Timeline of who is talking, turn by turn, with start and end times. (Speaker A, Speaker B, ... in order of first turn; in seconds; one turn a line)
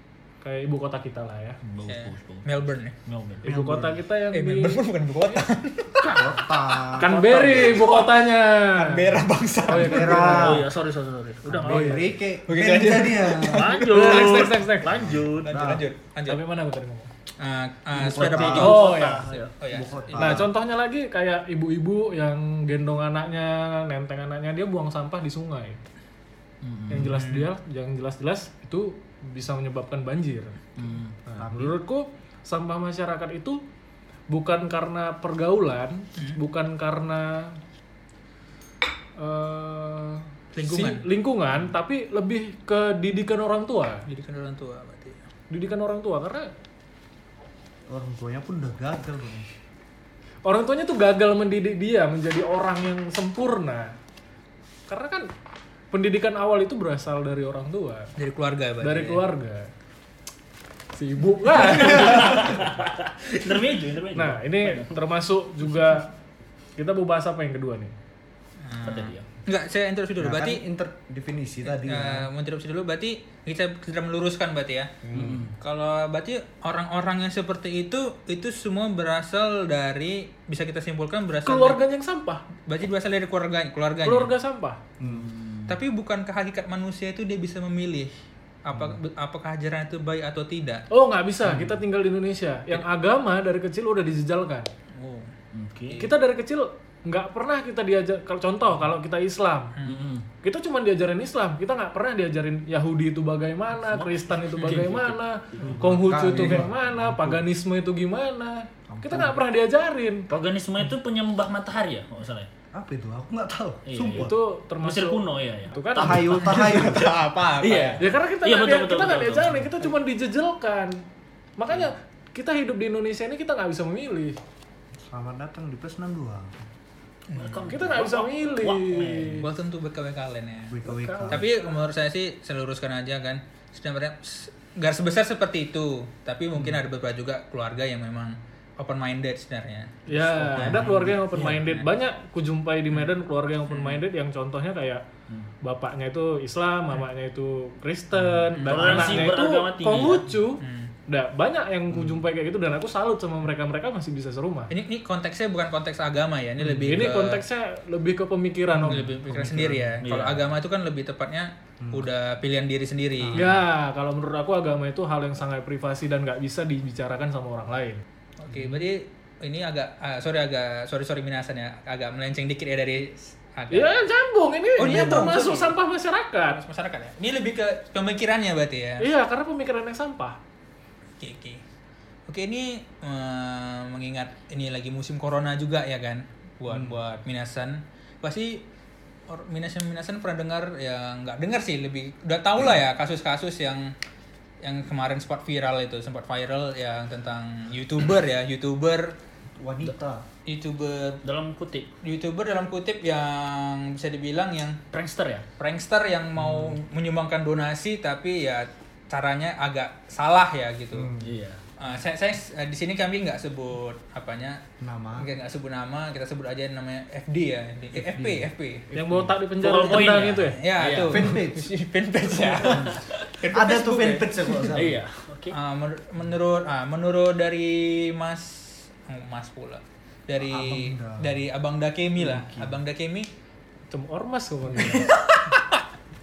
Speaker A: 0.4-1.6
Speaker B: 1.6-3.5
Speaker C: 1.9-2.9
Speaker A: 3.4-4.8
Speaker D: 3.4-4.0
Speaker C: 4.3-6.2
Speaker B: 6.0-8.1
Speaker D: 6.1-7.2
Speaker A: 7.0-10.6
Speaker C: 8.8-10.3
Speaker D: 9.7-10.7
Speaker B: 10.2-12.1
Speaker D: 11.5-13.7
Speaker A: 11.5-12.1
Speaker C: 12.5-14.5
Speaker B: 13.4-15.6
Speaker A: 13.8-15.1
Speaker C: 15.4-16.4
Speaker D: 15.5-15.8
Speaker A: 16.2-17.1
Speaker C: 17.4-18.9
Speaker D: 17.9-20.5
Speaker B: 18.1-19.5
Speaker A: 18.5-19.3
Speaker C: 19.6-20.4
Speaker A: 20.1-25.8
Speaker B: 26.6-27.2
Speaker A: 26.9-30.6
Speaker C: 27.1-27.5
Speaker B: 30.8-31.2
Speaker A: 31.3-33.6
Speaker D: 31.4-31.8
Speaker A: 34.3-37.6
Speaker A: 39.2-44.1
Speaker C: 40.5-41.0
Speaker C: 44.1-45.2
Speaker A: 45.5-46.5
Speaker D: 47.9-49.5
Speaker A: 50.4-54.0
Speaker A: 54.9-55.3
Speaker A: 55.9-58.1
Speaker C: 58.2-59.2
Speaker A: 58.8-59.7
Speaker A: 60.9-62.7
Speaker B: 61.6-65.0
Speaker A: 64.1-66.1
Speaker A: 66.8-67.9
Speaker C: 68.6-70.6
Speaker B: 68.8-69.2
Speaker D: 70.2-72.3
Speaker C: 71.7-75.0
Speaker D: 75.0-75.5
Speaker B: 75.1-75.5
Speaker C: 75.6-81.8
Speaker A: 81.4-82.4
Speaker C: 82.6-84.3
Speaker A: 84.0-84.8
Speaker D: 85.0-85.3
Speaker B: 85.0-85.8
Speaker C: 85.7-88.1
Speaker C: 88.6-90.9
Speaker A: 90.9-94.7
Speaker C: 94.9-95.3
Speaker B: 95.5-96.1
Speaker A: 96.0-99.7
Speaker B: 99.8-100.2
Speaker A: 100.4-110.3
Speaker B: 103.8-105.8
Speaker C: 104.5-104.8
Speaker D: 105.6-107.4
Speaker D: 108.9-109.4
Speaker B: 110.3-112.5
Speaker D: 112.7-114.3
Speaker B: 113.8-119.9
Speaker A: 114.1-116.3
Speaker D: 116.0-117.2
Speaker C: 116.3-118.0
Speaker A: 118.0-121.0
Speaker A: 121.6-124.4
Speaker D: 125.0-126.6
Speaker C: 127.3-127.7
Speaker B: 127.3-129.5
Speaker A: 127.6-129.5
Speaker C: 129.4-141.8
Speaker D: 130.7-131.5
Speaker A: 130.8-131.4
Speaker A: 140.1-145.0
Speaker D: 140.6-141.5
Speaker C: 143.7-144.0
Speaker A: 145.6-154.7
Speaker D: 148.2-148.5
Speaker C: 148.5-149.3
Speaker B: 148.7-150.2
Speaker C: 150.6-150.9
Speaker C: 154.7-157.4
Speaker A: 156.7-159.7
Speaker C: 158.8-163.5
Speaker D: 158.9-159.9
Speaker B: 160.0-160.5
Speaker D: 161.8-162.1
Speaker D: 163.2-163.6
Speaker A: 163.3-168.0
Speaker C: 168.4-173.9
Speaker D: 168.5-168.8
Speaker A: 173.7-176.6
Speaker C: 174.8-175.8
Speaker C: 176.5-179.0
Speaker A: 179.0-180.4
Speaker C: 181.2-181.6
Speaker C: 182.2-188.6
Speaker D: 186.7-187.0
Speaker C: 189.3-193.9
Speaker C: 194.6-199.2
Speaker D: 199.6-200.2
Speaker C: 200.4-201.2
Speaker B: 201.2-201.9
Speaker C: 202.0-204.8
Speaker B: 204.9-205.4
Speaker C: 205.6-211.2
Speaker D: 206.4-206.8
Speaker D: 210.9-211.3
Speaker B: 211.2-211.6
Speaker C: 211.8-214.6
Speaker D: 214.8-215.3
Speaker C: 215.2-218.9
Speaker D: 217.9-219.3
Speaker A: 218.9-220.6
Speaker B: 219.6-221.4
Speaker C: 219.7-224.8
Speaker D: 221.0-221.7
Speaker B: 222.4-223.3
Speaker D: 223.5-225.0
Speaker B: 224.7-225.6
Speaker C: 225.5-233.3
Speaker D: 230.4-231.4
Speaker D: 232.2-232.8
Speaker A: 233.9-235.1
Speaker C: 234.7-235.8